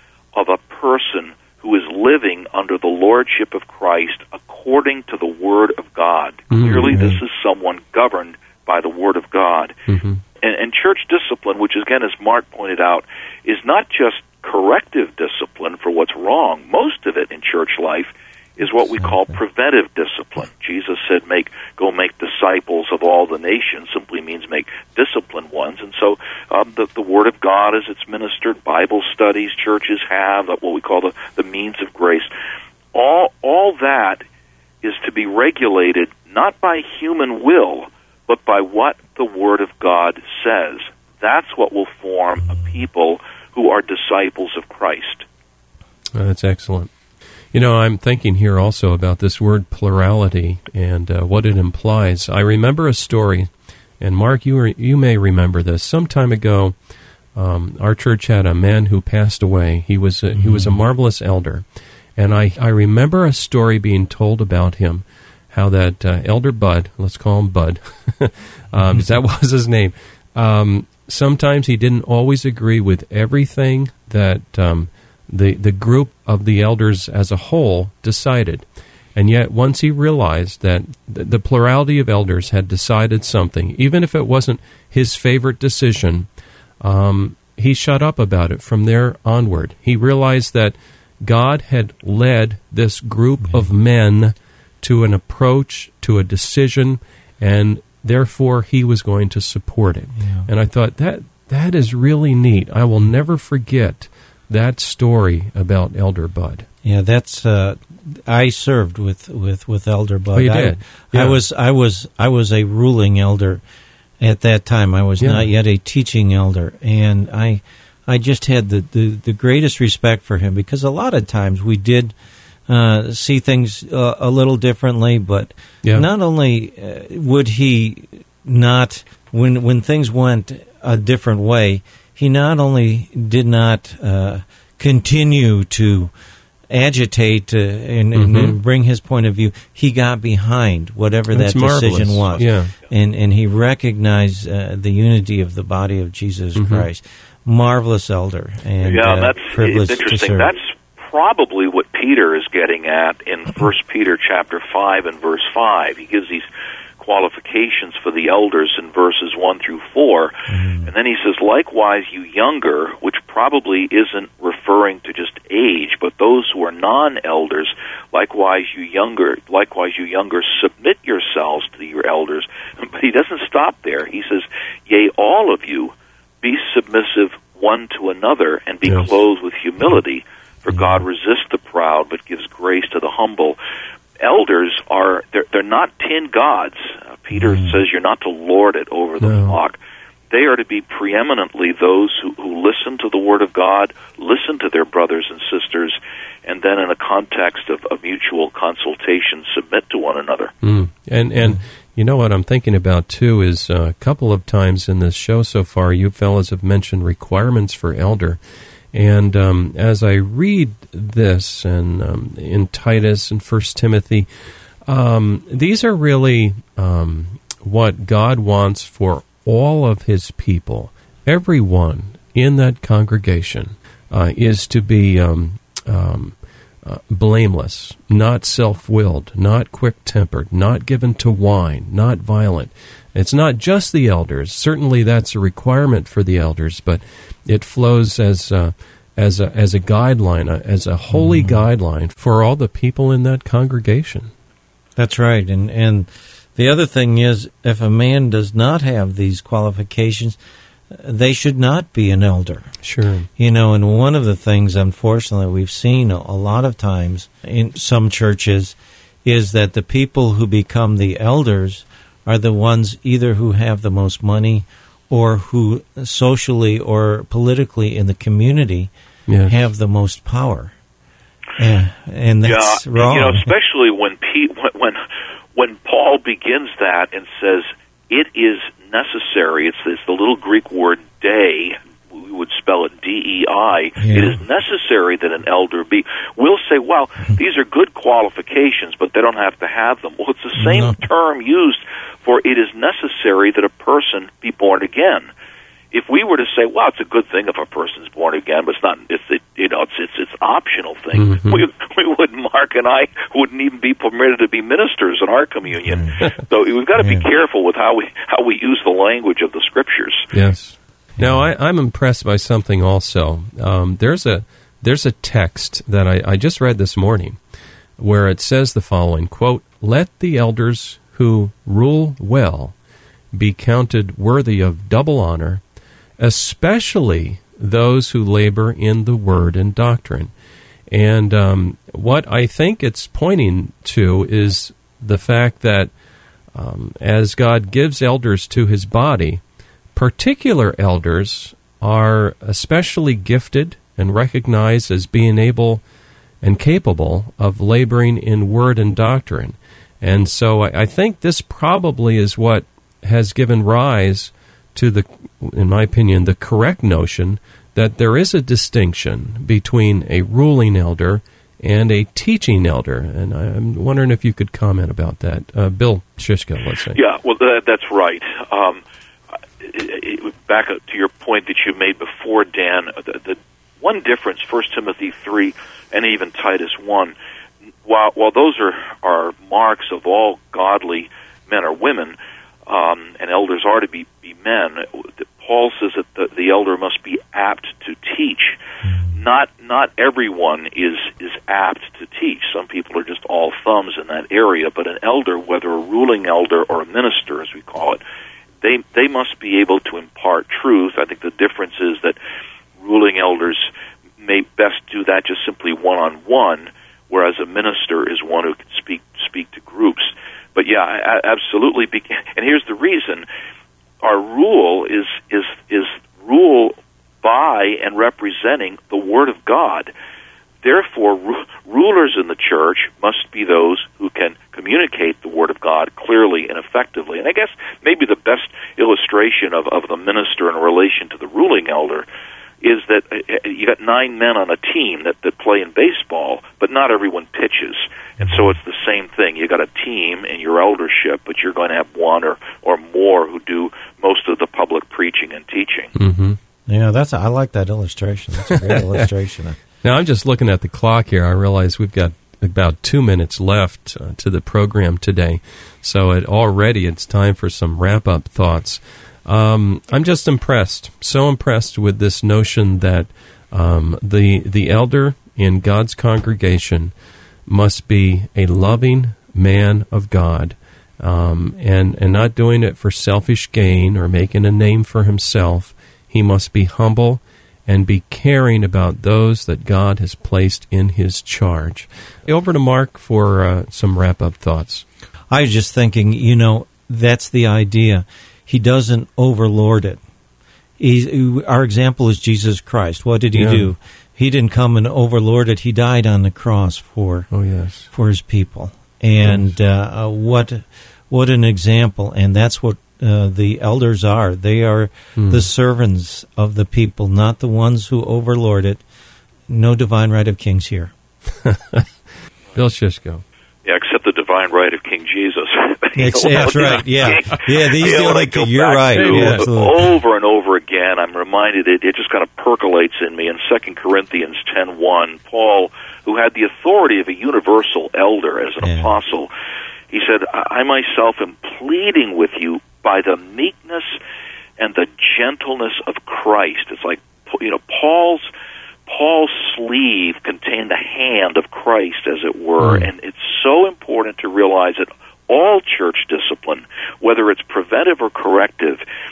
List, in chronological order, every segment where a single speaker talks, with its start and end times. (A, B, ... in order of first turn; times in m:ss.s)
0:00.4-0:09.8 A
0:06.5-0:07.0 B
0:06.8-0:07.2 C
0:09.9-0:10.2 B
0:10.4-0:32.3 A
0:32.9-0:34.2 A
0:34.8-0:45.2 A
0:46.2-0:46.9 B
0:47.5-0:56.8 B
0:57.4-1:01.6 B
1:00.4-1:00.8 C
1:02.2-1:26.3 B
1:08.8-1:09.0 C
1:26.8-1:46.7 B
1:40.2-1:40.5 C
1:46.8-1:53.6 C
1:50.3-1:51.4 B
1:54.2-2:02.1 C
1:55.2-1:55.4 B
2:02.7-2:16.1 C
2:16.7-2:30.5 C
2:18.1-2:18.6 B
2:21.3-2:22.7 B
2:26.6-2:26.9 B
2:28.8-2:36.5 A
2:37.0-3:03.6 A
2:40.5-2:40.9 C
3:04.2-3:09.8 A
3:07.4-3:07.8 C
3:09.2-3:09.6 B
3:10.3-3:20.5 A
3:20.6-3:28.4 B
3:28.9-3:34.3 B
3:34.9-4:04.3 B
4:01.1-4:01.6 C
4:05.0-4:10.4 C
4:10.9-4:12.7 C
4:12.8-4:13.3 B
4:13.4-4:28.9 C
4:29.3-4:29.6 B
4:29.5-4:30.7 C
4:31.6-4:33.5 C
4:32.4-4:35.0 A
4:35.6-4:55.3 A
4:44.0-4:44.4 C
4:50.6-4:51.0 C
4:55.9-5:10.3 A
5:01.2-5:01.6 B
5:05.9-5:06.1 C
5:07.0-5:07.3 C
5:10.3-5:17.4 B
5:11.2-5:11.5 C
5:18.0-5:22.8 B
5:23.3-5:25.6 B
5:26.2-5:30.3 B
5:30.9-5:35.9 B
5:36.5-5:39.4 B
5:40.0-5:45.8 B
5:46.4-6:07.0 B
6:06.9-6:08.8 A
6:09.6-6:17.2 A
6:17.8-6:22.2 A
6:22.7-6:28.6 A
6:28.8-6:29.1 C
6:29.1-6:38.0 A
6:38.6-6:42.2 A
6:42.8-6:53.3 A
6:54.0-6:59.9 A
7:00.6-7:12.1 A
7:12.6-7:25.9 A
7:26.0-7:26.4 B
7:26.7-7:29.6 C
7:28.5-7:29.0 B
7:29.8-7:46.9 B
7:47.5-8:04.8 B
8:05.3-8:10.0 C
8:10.8-8:17.3 C
8:13.4-8:13.7 B
8:17.3-8:17.9 B
8:17.9-8:28.8 C
8:25.2-8:25.5 B
8:29.5-8:30.9 C
8:31.4-8:31.9 B
8:32.5-8:33.2 B
8:33.6-8:49.3 A
8:36.0-8:39.8 C
8:39.0-8:39.5 B
8:48.6-8:48.9 C
8:49.9-8:54.0 A
8:54.6-8:58.3 A
8:58.9-9:08.8 A
9:02.6-9:02.9 B